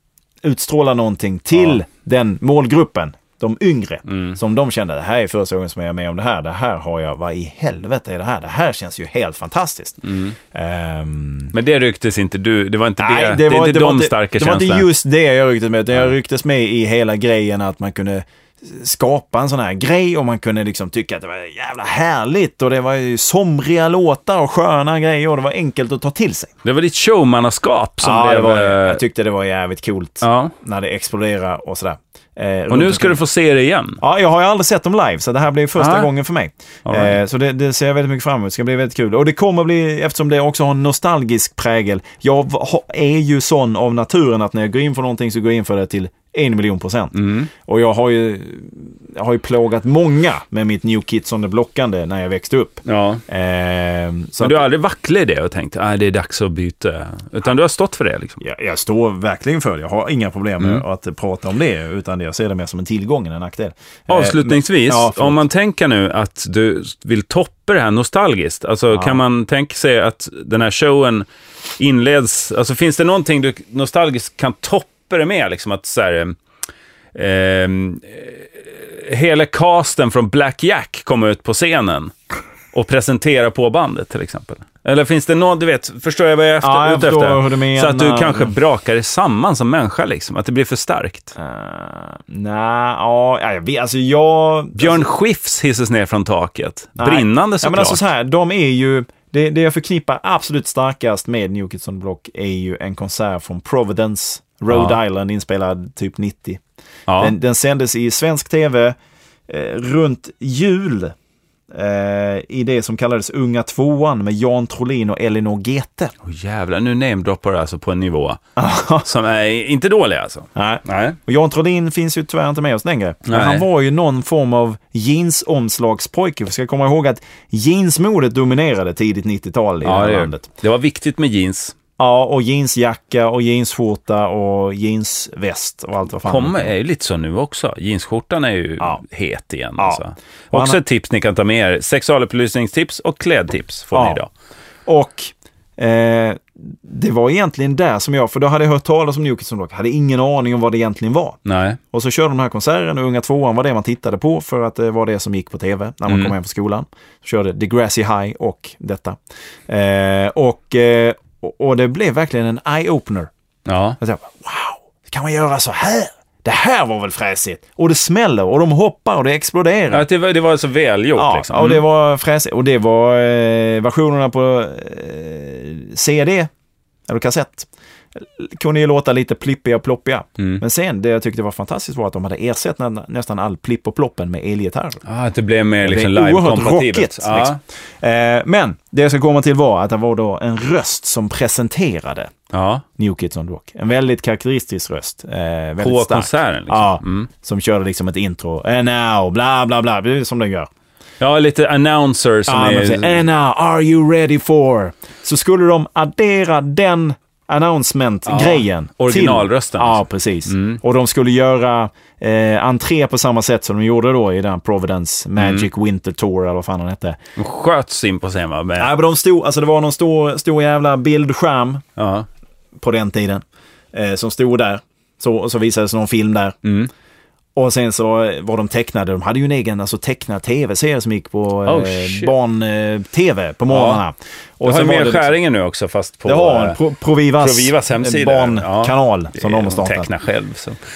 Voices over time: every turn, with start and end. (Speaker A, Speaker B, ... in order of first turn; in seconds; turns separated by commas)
Speaker A: 0.4-11.5, Speaker B: 4.1-4.4, Speaker B: 10.0-10.3, Speaker B: 11.5-14.9, Speaker A: 13.0-26.5, Speaker B: 26.6-29.0, Speaker A: 28.0-33.2, Speaker B: 30.2-30.5, Speaker B: 32.7-34.0, Speaker A: 34.0-54.7, Speaker B: 35.8-36.1, Speaker B: 36.9-37.2, Speaker B: 47.1-47.5, Speaker B: 52.9-53.2, Speaker B: 54.4-58.4, Speaker A: 58.4-65.5, Speaker B: 64.1-71.3, Speaker A: 68.9-69.2, Speaker B: 71.8-76.4, Speaker B: 77.1-82.1, Speaker B: 82.7-91.3, Speaker A: 86.6-88.5, Speaker A: 91.4-95.1, Speaker B: 94.8-98.0, Speaker A: 97.0-106.6, Speaker B: 104.7-105.0, Speaker B: 107.1-107.3, Speaker A: 107.2-109.0, Speaker A: 109.5-111.2, Speaker A: 111.7-116.1, Speaker B: 116.2-118.4, Speaker A: 118.6-119.1, Speaker B: 119.0-121.2, Speaker A: 120.5-130.5, Speaker B: 123.3-123.7, Speaker B: 129.8-131.8, Speaker A: 132.0-136.7, Speaker B: 136.2-144.3, Speaker A: 139.8-140.8, Speaker A: 143.9-144.2, Speaker A: 144.9-151.4, Speaker B: 151.5-151.8, Speaker A: 151.9-159.2, Speaker B: 156.1-156.3, Speaker A: 159.7-163.3, Speaker B: 163.7-164.0, Speaker A: 164.0-170.1, Speaker B: 169.9-171.8, Speaker A: 171.2-176.5, Speaker A: 177.1-185.0, Speaker B: 185.1-187.6, Speaker A: 185.8-192.3, Speaker B: 192.5-192.8, Speaker A: 193.0-200.7, Speaker B: 195.8-197.3, Speaker B: 201.2-203.3, Speaker A: 202.5-217.2, Speaker B: 208.3-210.8, Speaker B: 215.4-215.7, Speaker B: 217.4-218.9, Speaker A: 218.8-221.8, Speaker B: 222.0-222.3, Speaker A: 222.8-226.6, Speaker B: 226.6-226.9, Speaker A: 227.6-235.4, Speaker B: 231.7-232.3, Speaker B: 233.7-234.0, Speaker B: 234.6-236.8, Speaker A: 236.3-240.1, Speaker B: 237.4-240.8